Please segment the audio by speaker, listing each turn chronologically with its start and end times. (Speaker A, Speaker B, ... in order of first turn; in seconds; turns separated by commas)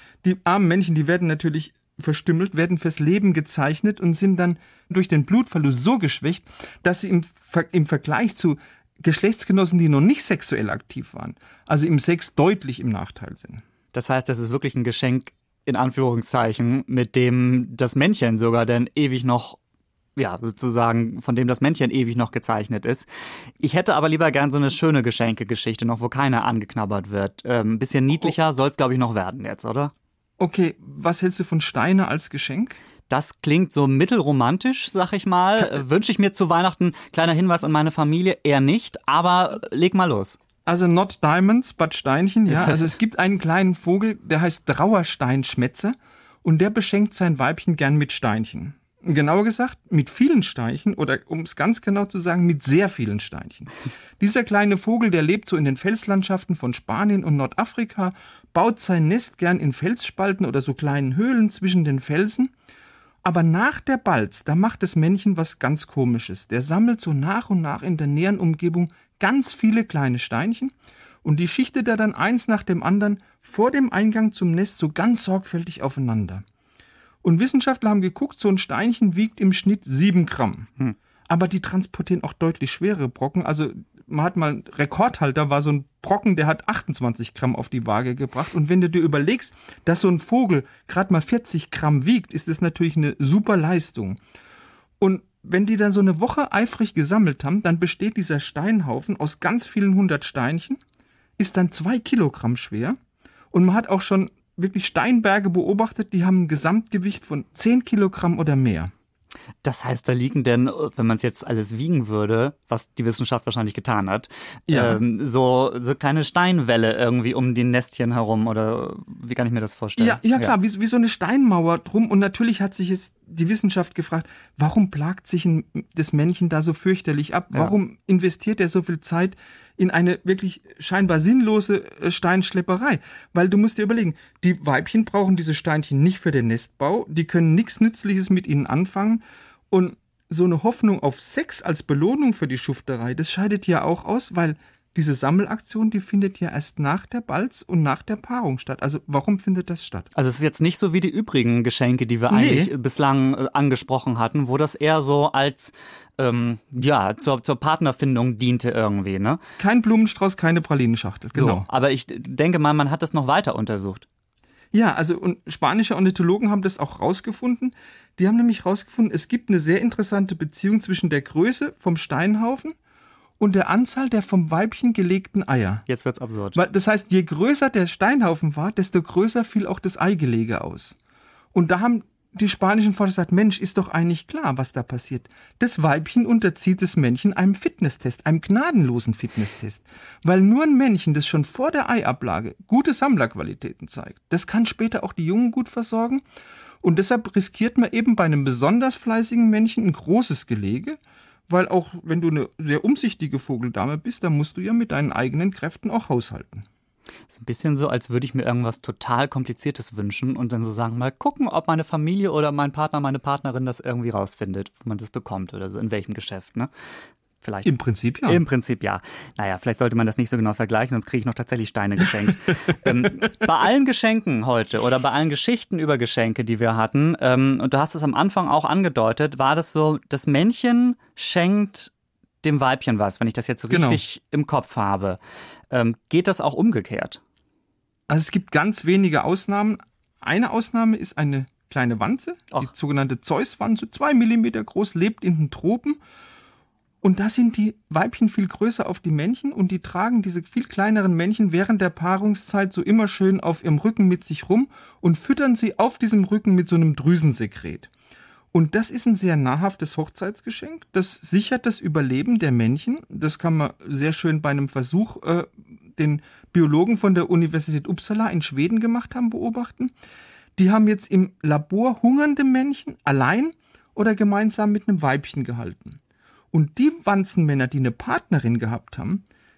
Speaker A: 0.2-13.6, Speaker B: 13.9-19.6, Speaker B: 20.2-23.1, Speaker B: 23.6-29.9, Speaker A: 30.4-32.8, Speaker B: 33.1-40.4, Speaker A: 40.7-62.5, Speaker A: 63.2-70.7, Speaker A: 71.2-76.4, Speaker A: 77.2-80.7, Speaker A: 81.3-94.2, Speaker A: 95.0-100.8, Speaker A: 101.4-103.0, Speaker A: 103.5-108.9, Speaker B: 109.6-120.5, Speaker A: 114.7-115.0, Speaker A: 120.0-150.1, Speaker B: 150.1-159.4, Speaker A: 152.3-152.7, Speaker A: 159.6-161.7, Speaker B: 161.3-164.1, Speaker A: 164.7-172.8, Speaker A: 173.4-175.9, Speaker B: 175.9-176.6, Speaker A: 176.6-181.0, Speaker A: 181.5-196.2, Speaker A: 196.8-201.0, Speaker A: 201.5-206.7, Speaker B: 207.3-216.7, Speaker B: 217.4-217.7, Speaker A: 217.7-218.4, Speaker B: 218.3-231.9, Speaker B: 232.4-235.2, Speaker A: 233.7-234.0, Speaker B: 235.7-237.2, Speaker A: 238.1-246.0, Speaker A: 247.0-257.9, Speaker A: 258.5-269.9, Speaker A: 270.6-276.0, Speaker A: 276.5-279.2